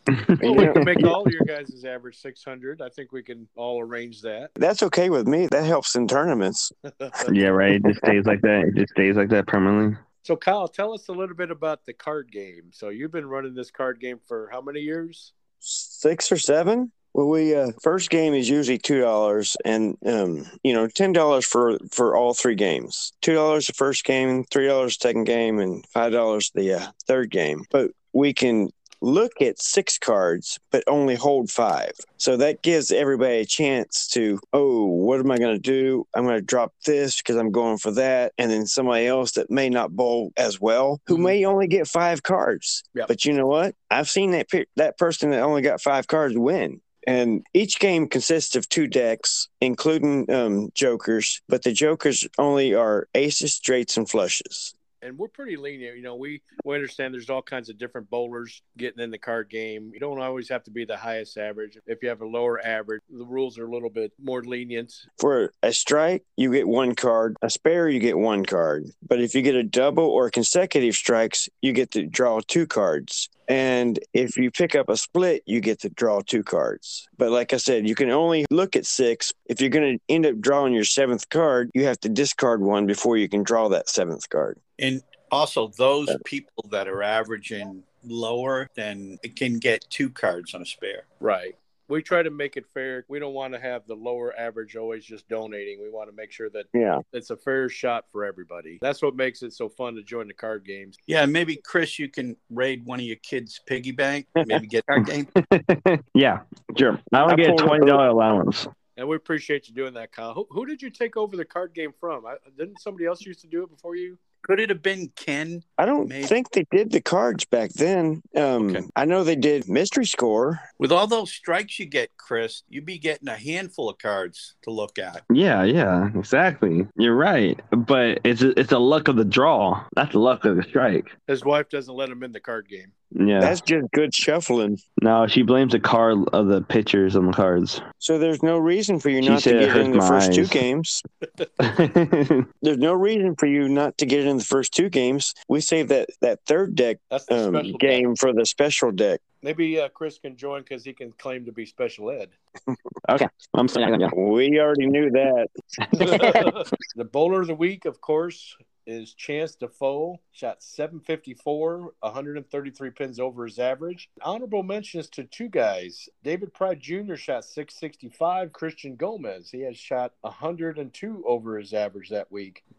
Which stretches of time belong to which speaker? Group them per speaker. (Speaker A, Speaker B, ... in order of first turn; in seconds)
Speaker A: 0.1-1.2, 7.3-10.0, 105.0-108.7, 125.3-131.1, 133.2-133.6, 135.0-137.8, 139.2-140.6, 141.6-142.5, 153.1-154.1, 156.0-156.4
Speaker B: 0.4-0.9, 4.6-6.7, 15.6-54.7, 65.2-84.6, 96.7-97.0, 107.2-108.0, 115.8-120.6, 133.4-134.8, 138.0-141.0, 142.6-149.2, 154.1-156.5
Speaker C: 0.4-4.5, 6.9-7.7, 10.2-15.3, 55.0-65.0, 91.2-101.0, 109.0-114.2, 131.3-132.9, 147.1-148.1, 149.4-152.3, 156.0-172.6
Speaker D: 41.1-41.4, 84.8-91.0, 101.1-105.3, 114.4-116.3, 118.6-118.9, 120.8-125.2